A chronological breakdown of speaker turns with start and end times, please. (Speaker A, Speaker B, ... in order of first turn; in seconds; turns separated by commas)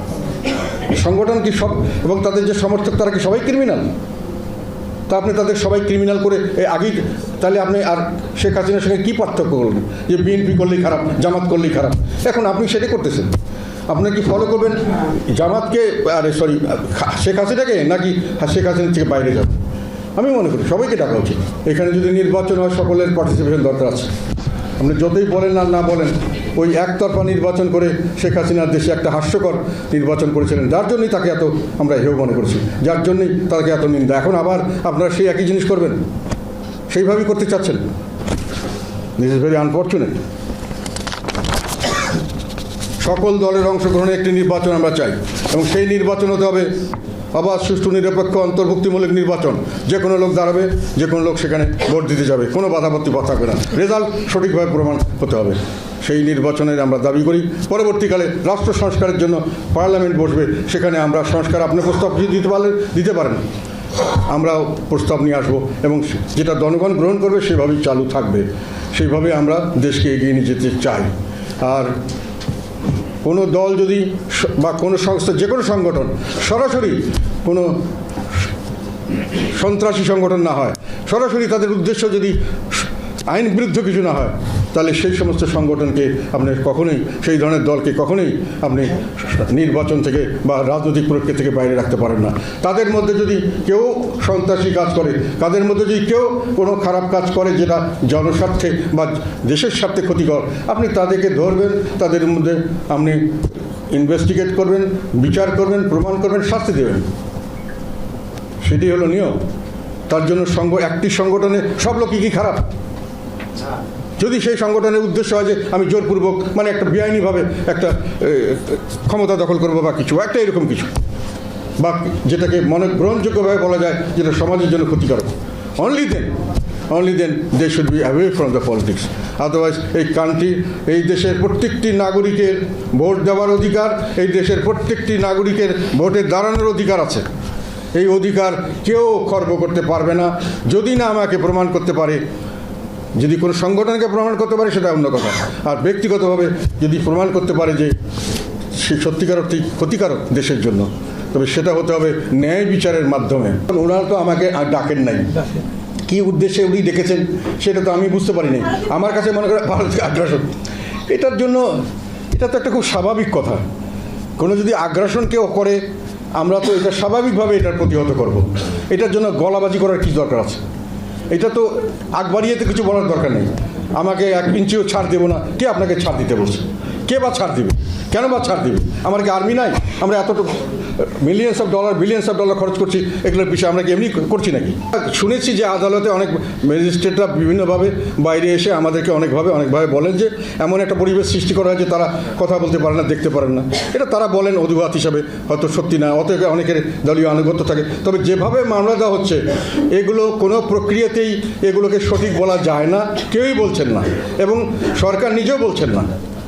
Speaker A: 0.9-3.9, Speaker A: 5.1-13.3, Speaker A: 13.9-19.6, Speaker A: 20.2-24.1, Speaker A: 24.8-36.0, Speaker A: 36.9-37.8, Speaker A: 39.2-40.2, Speaker A: 43.0-46.8, Speaker A: 47.3-63.5, Speaker A: 64.1-71.9, Speaker A: 73.2-77.8, Speaker A: 79.3-103.4, Speaker A: 103.9-107.1, Speaker A: 108.6-109.4, Speaker A: 110.1-112.7, Speaker A: 114.2-120.9, Speaker A: 121.8-126.4, Speaker A: 126.9-137.3, Speaker A: 137.9-142.2, Speaker A: 143.2-147.9, Speaker A: 148.7-155.5, Speaker A: 156.1-160.5, Speaker A: 161.1-163.6, Speaker A: 164.4-165.8, Speaker A: 166.4-170.6, Speaker A: 171.3-206.1